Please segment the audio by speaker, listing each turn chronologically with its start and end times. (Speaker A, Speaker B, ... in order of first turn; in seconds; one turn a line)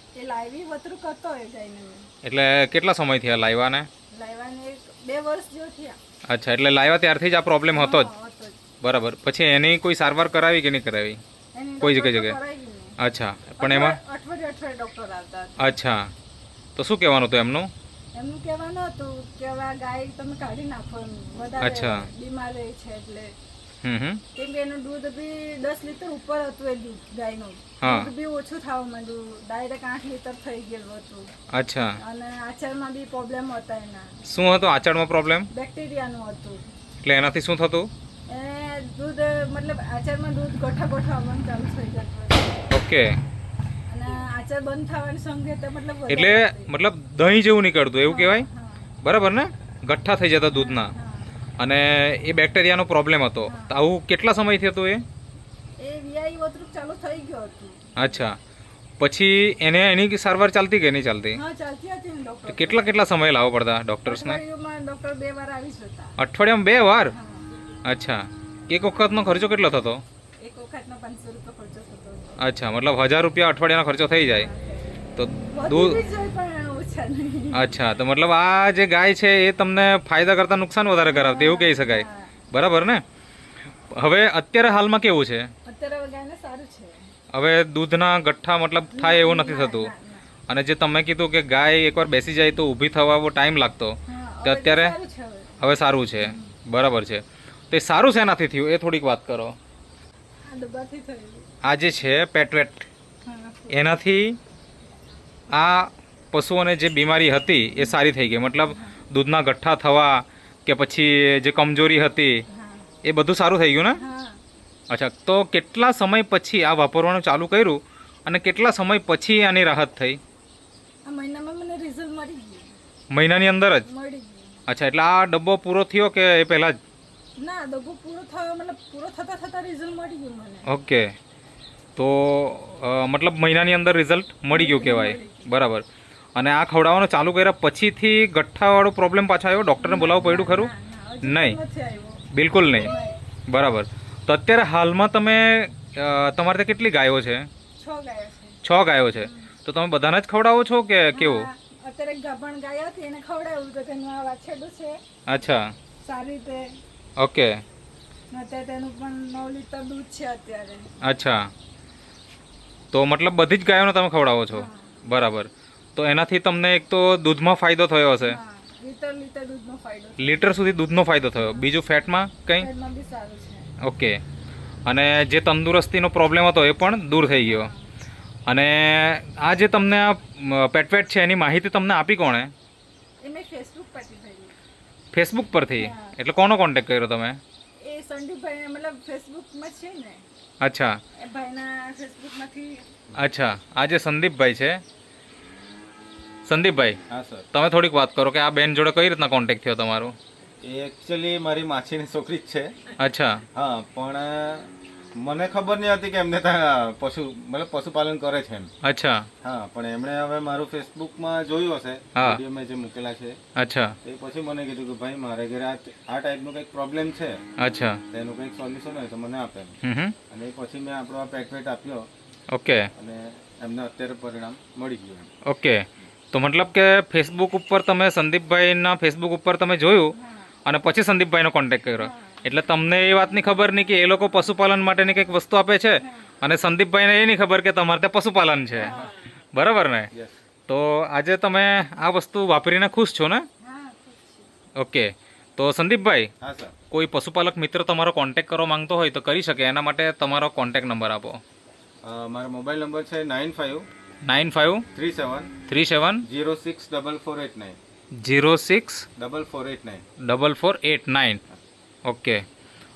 Speaker A: 0.1-2.1
Speaker B: 2.2-3.9
Speaker A: 4.1-6.0
Speaker B: 6.3-8.1
Speaker A: 7.7-8.6
Speaker B: 8.8-11.2
Speaker A: 11.5-12.9
Speaker B: 11.8-12.4
Speaker B: 13.0-14.0
Speaker A: 13.6-15.7
Speaker B: 15.6-16.1
Speaker B: 16.8-17.7
Speaker A: 18.1-23.3
Speaker B: 21.6-22.1
Speaker B: 23.8-24.2
Speaker A: 24.3-31.3
Speaker B: 27.8-28.1
Speaker B: 31.5-32.0
Speaker A: 32.0-34.2
Speaker B: 34.3-35.5
Speaker A: 35.5-36.6
Speaker B: 37.0-37.9
Speaker A: 38.3-42.6
Speaker B: 42.7-43.2
Speaker A: 43.9-46.7
Speaker B: 46.1-48.5
Speaker A: 48.0-48.9
Speaker B: 49.0-50.9
Speaker A: 50.5-51.3
Speaker B: 51.6-55.0
Speaker A: 53.5-53.8
Speaker A: 55.8-58.0
Speaker B: 58.0-58.4
Speaker B: 59.0-61.4
Speaker A: 61.3-63.0
Speaker B: 62.5-64.4
Speaker A: 64.1-66.1
Speaker B: 66.2-67.1
Speaker A: 67.1-67.5
Speaker B: 67.8-70.0
Speaker A: 70.4-72.4
Speaker B: 72.4-74.5
Speaker A: 74.3-77.6
Speaker B: 75.2-76.0
Speaker B: 77.5-83.0
Speaker A: 81.0-82.3
Speaker B: 83.9-85.5
Speaker A: 85.7-87.0
Speaker B: 87.3-89.9
Speaker A: 88.9-90.3
Speaker B: 90.5-95.0
Speaker A: 94.0-95.6
Speaker B: 95.6-99.5
Speaker A: 96.2-96.5
Speaker A: 100.4-101.5
Speaker B: 101.6-102.9
Speaker A: 103.2-103.8
Speaker B: 103.7-104.4
Speaker B: 105.5-112.4
Speaker A: 108.6-109.0
Speaker A: 112.5-112.9
Speaker B: 113.0-114.0
Speaker A: 114.0-114.4
Speaker B: 114.9-120.2
Speaker A: 121.0-122.7
Speaker B: 123.1-123.8
Speaker A: 123.9-124.6
Speaker B: 124.7-126.8
Speaker A: 127.4-130.7
Speaker B: 130.7-131.1
Speaker B: 131.9-140.7
Speaker A: 134.5-135.5
Speaker A: 139.8-143.2
Speaker B: 141.2-141.6
Speaker B: 142.3-142.9
Speaker B: 143.5-147.5
Speaker A: 147.8-148.6
Speaker B: 148.6-151.5
Speaker A: 149.1-149.5
Speaker A: 151.1-155.0
Speaker B: 155.3-155.7
Speaker A: 156.0-156.8
Speaker B: 157.2-157.6
Speaker A: 158.3-160.9
Speaker B: 161.0-161.5
Speaker B: 162.9-168.4
Speaker A: 164.5-165.0
Speaker A: 168.2-170.5
Speaker B: 170.2-172.7
Speaker A: 171.4-171.7
Speaker A: 172.6-173.7
Speaker B: 173.8-174.2
Speaker B: 174.8-177.7
Speaker A: 177.3-177.8
Speaker B: 178.5-182.5
Speaker A: 183.2-184.6
Speaker B: 185.1-187.4
Speaker A: 185.8-186.1
Speaker A: 187.8-190.2
Speaker B: 190.6-191.0
Speaker A: 191.2-192.8
Speaker B: 193.1-194.8
Speaker B: 196.5-197.0
Speaker C: 197.1-197.4
Speaker B: 197.5-200.1
Speaker C: 200.6-202.7
Speaker B: 203.0-203.5
Speaker C: 203.5-208.7
Speaker B: 208.8-209.3
Speaker C: 209.4-213.4
Speaker B: 212.1-212.4
Speaker B: 213.6-213.9
Speaker C: 214.0-217.4
Speaker B: 217.6-218.0
Speaker C: 218.1-219.8
Speaker B: 219.8-220.2
Speaker C: 220.3-222.1
Speaker B: 222.5-222.9
Speaker C: 222.9-225.3
Speaker B: 225.4-239.0
Speaker A: 230.1-230.5
Speaker A: 232.0-232.5
Speaker A: 236.0-236.3
Speaker A: 238.8-239.1
Speaker B: 239.5-240.1
Speaker B: 240.7-243.4
Speaker A: 243.6-244.5
Speaker B: 244.8-246.3
Speaker C: 246.4-246.8
Speaker B: 246.9-251.4
Speaker C: 252.0-253.8
Speaker B: 254.2-254.8
Speaker C: 254.9-255.5
Speaker B: 255.7-256.2
Speaker C: 256.3-257.8
Speaker B: 258.2-259.1
Speaker C: 259.2-260.0
Speaker B: 260.2-261.4
Speaker B: 262.1-262.4